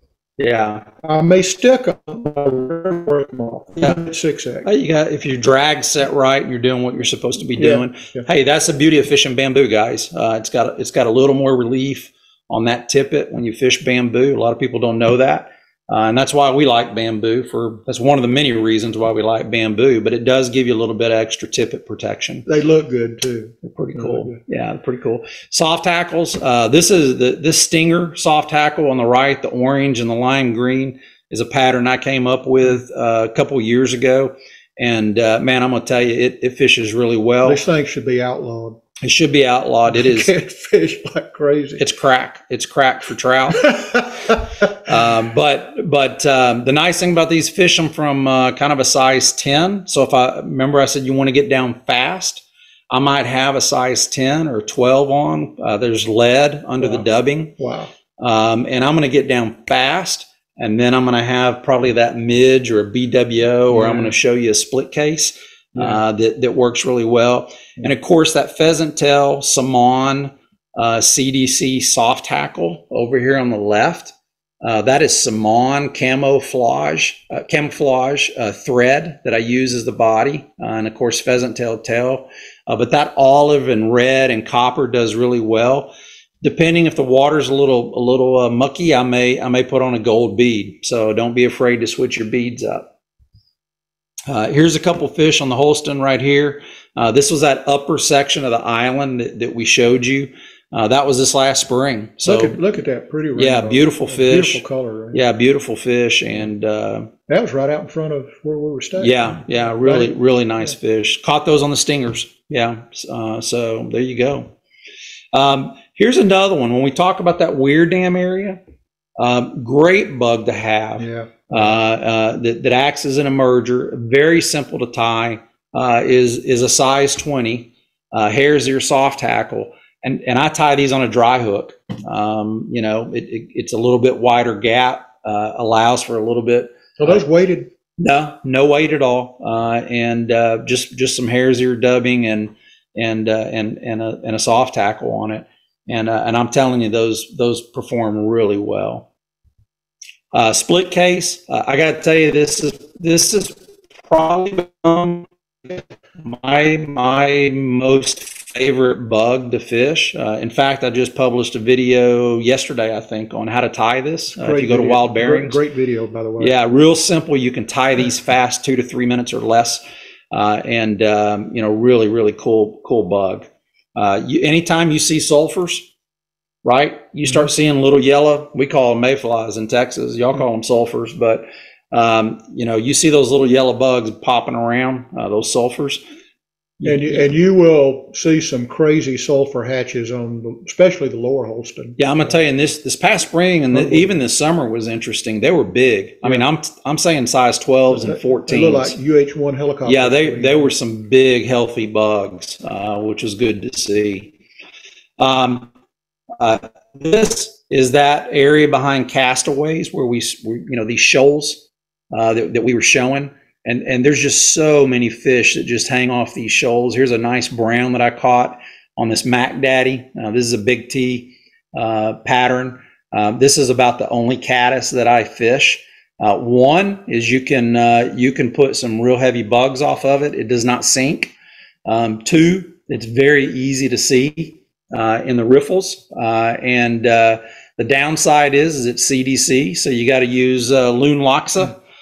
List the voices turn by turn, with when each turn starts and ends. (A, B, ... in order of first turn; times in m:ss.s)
0:00.4-0:00.8 A
0:01.0-0:04.7 B
0:04.6-0:22.4 A
0:07.6-0:08.2 B
0:22.5-0:24.4 B
0:23.6-0:37.6 A
0:37.4-0:38.8 B
0:39.0-0:40.3 A
0:39.9-0:41.8 B
0:41.8-0:44.1 A
0:43.6-0:44.4 B
0:44.7-0:57.5 A
0:57.6-0:57.9 B
0:58.2-1:32.9 A
1:03.7-1:04.1 B
1:05.7-1:06.0 B
1:34.3-1:42.6 A
1:42.2-1:45.2 B
1:43.3-1:47.1 A
1:47.3-1:50.1 B
1:49.0-1:54.5 A
1:55.3-1:58.6 A
1:59.2-2:17.2 A
2:01.0-2:01.7 B
2:17.0-2:17.7 B
2:18.0-2:29.1 A
2:30.3-2:45.6 A
2:44.3-2:46.5 B
2:46.4-2:55.9 A
2:56.6-3:06.0 A
3:06.8-3:07.3 A
3:06.8-3:12.0 B
3:12.0-3:19.0 A
3:13.7-3:14.1 B
3:17.9-3:20.7 B
3:19.8-3:24.3 A
3:25.2-3:25.7 A
3:26.4-3:51.3 A
3:51.8-4:01.8 A